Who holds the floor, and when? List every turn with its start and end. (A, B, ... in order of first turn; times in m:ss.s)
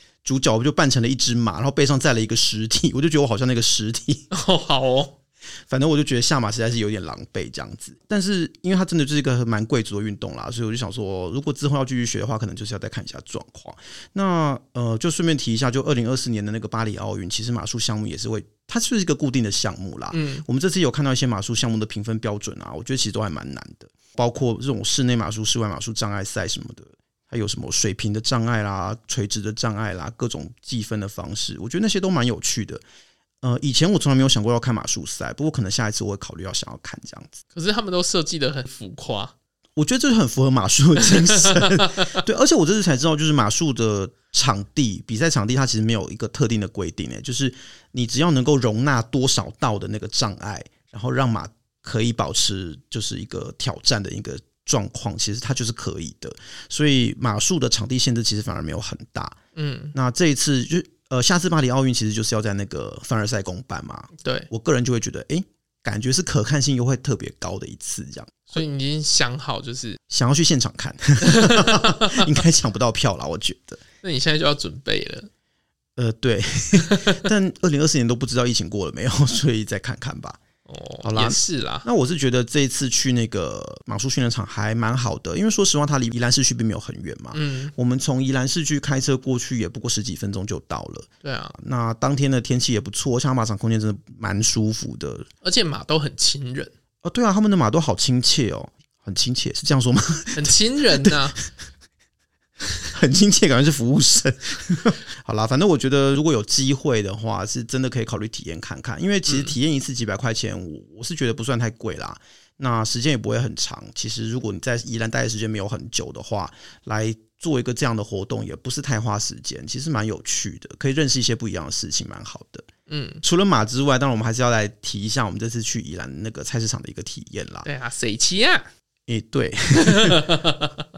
0:00.2-0:04.3 A
0:04.3-0:05.2 B
0:05.7-0:32.8 A
0:20.1-0:20.4 B
0:33.4-0:37.4 A
0:37.5-0:39.3 B
0:39.8-0:59.4 A
0:41.3-0:42.2 B
0:59.6-0:59.9 B
0:59.9-1:08.6 A
1:04.2-1:04.5 B
1:08.5-1:10.0 B
1:10.1-1:13.8 A
1:11.2-1:12.3 B
1:14.0-1:15.3 B
1:16.0-1:20.4 A
1:16.8-1:17.2 B
1:20.7-1:21.9 B
1:21.0-1:35.3 A
1:27.3-1:27.7 B
1:31.2-1:31.6 B
1:35.4-1:36.7 B
1:37.0-1:41.2 A
1:40.4-1:41.4 B
1:42.9-2:02.7 A
1:49.3-1:49.6 B
2:02.9-2:03.2 B
2:03.2-2:07.7 A
2:07.6-2:08.7 B
2:09.1-2:10.3 A
2:09.8-2:10.8 B